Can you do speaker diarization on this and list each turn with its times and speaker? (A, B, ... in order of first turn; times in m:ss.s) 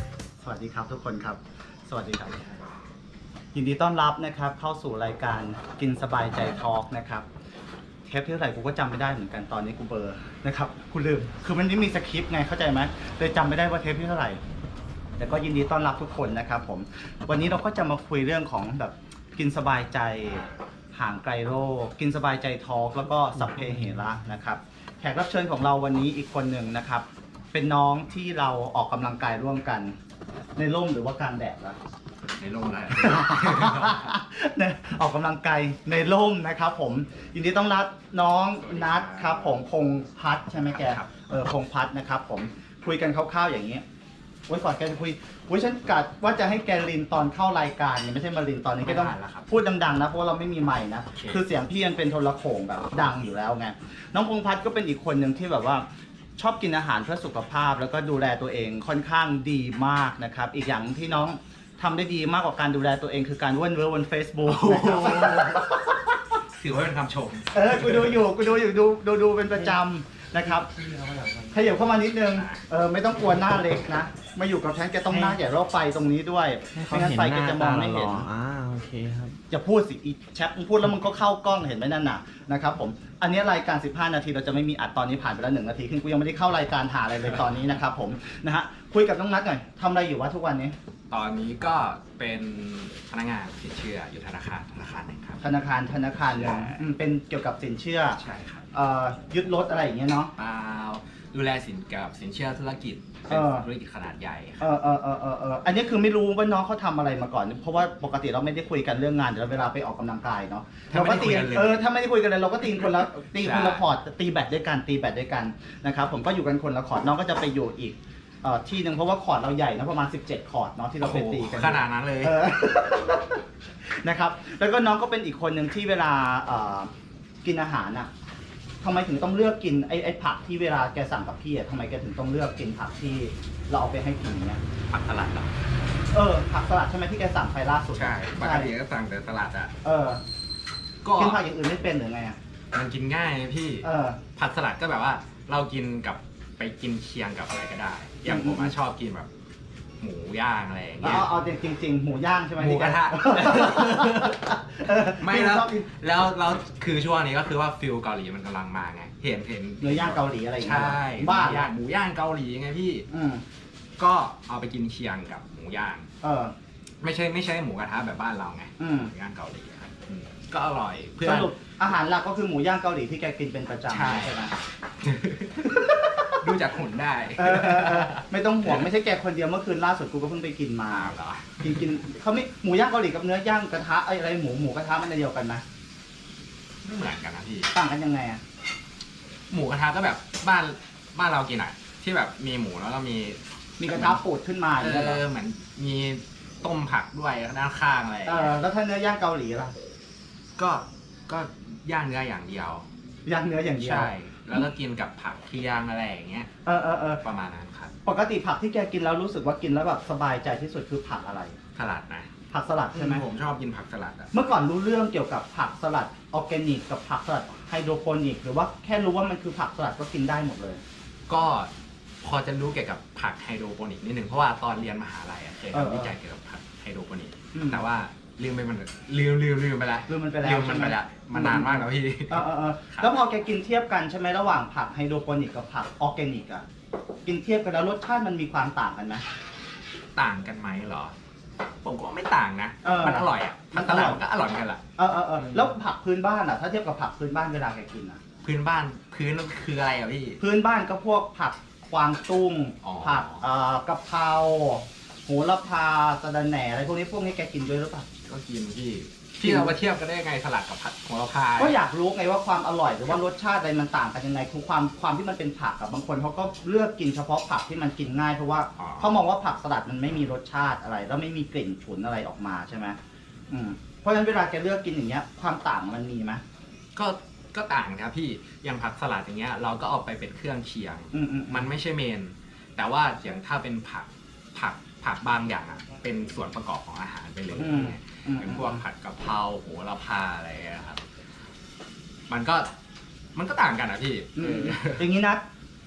0:00.4-0:02.5 A
0:03.5-0:07.2 A
0:08.1-0:14.4 A
0:15.2-0:29.9 A
0:30.6-0:31.8 A
0:32.4-0:34.1 B
0:33.0-0:43.8 A
0:38.6-0:39.6 B
0:40.7-0:41.2 B
0:44.5-0:55.8 A
0:48.8-0:49.6 B
0:51.1-0:51.4 B
0:56.4-1:06.1 A
1:04.4-1:05.9 B
1:06.4-1:08.2 B
1:07.5-1:10.7 A
1:10.7-1:11.6 C
1:11.5-1:18.3 A
1:12.3-1:12.7 B
1:16.8-1:19.4 C
1:19.5-1:30.8 A
1:31.1-1:35.5 B
1:35.4-1:38.2 A
1:36.1-1:36.8 B
1:38.1-1:38.7 B
1:38.7-1:40.3 A
1:40.4-1:44.7 B
1:43.3-1:43.7 A
1:44.6-2:06.9 A
1:50.9-1:51.9 B
1:52.7-1:53.8 B
2:01.0-2:02.4 B
2:07.4-2:08.1 A
2:08.8-2:14.6 A
2:14.9-2:15.5 B
2:16.1-2:18.7 A
2:17.9-2:19.7 B
2:19.8-2:20.2 A
2:21.0-2:21.4 B
2:21.2-2:22.4 A
2:22.7-2:29.3 B
2:23.8-2:24.2 A
2:28.3-2:28.7 A
2:30.0-2:31.3 B
2:31.0-2:35.9 A
2:32.5-2:43.1 B
2:39.8-2:41.7 A
2:43.1-2:43.4 A
2:44.0-2:46.1 B
2:46.2-2:46.5 A
2:47.0-2:51.5 B
2:48.8-2:49.1 A
2:51.2-2:54.5 A
2:53.9-2:54.4 B
2:55.0-2:58.8 B
2:55.8-2:56.5 A
2:57.4-3:05.6 A
3:00.9-3:02.0 B
3:06.8-3:07.7 B
3:07.7-3:08.4 A
3:09.5-3:14.2 B
3:13.8-3:15.2 A
3:14.8-3:18.6 B
3:18.2-3:19.7 A
3:20.6-3:22.8 B
3:23.2-3:24.1 A
3:23.8-3:26.5 B
3:26.7-3:27.2 A
3:27.2-3:27.9 B
3:28.0-3:31.6 A
3:31.7-3:32.3 B
3:32.5-3:33.2 A
3:32.9-3:34.4 B
3:34.3-3:40.8 A
3:41.3-3:53.1 B
3:45.7-3:46.1 A
3:47.5-3:47.8 A
3:50.1-3:56.6 A
3:57.2-3:59.2 A
4:00.1-4:01.1 B
4:01.8-4:04.8 B
4:02.8-4:04.2 A
4:05.0-4:08.2 A
4:05.4-4:05.8 B
4:08.4-4:10.4 B
4:10.4-4:18.1 A
4:12.8-4:13.4 B
4:18.2-4:21.8 B
4:19.4-4:19.8 A
4:21.6-4:33.0 A
4:28.8-4:29.2 B
4:33.5-4:36.4 A
4:36.9-4:51.0 B
4:41.1-4:41.7 A
4:47.6-4:48.8 A
4:52.3-4:52.7 B
4:53.3-4:55.1 B
4:54.4-4:55.4 A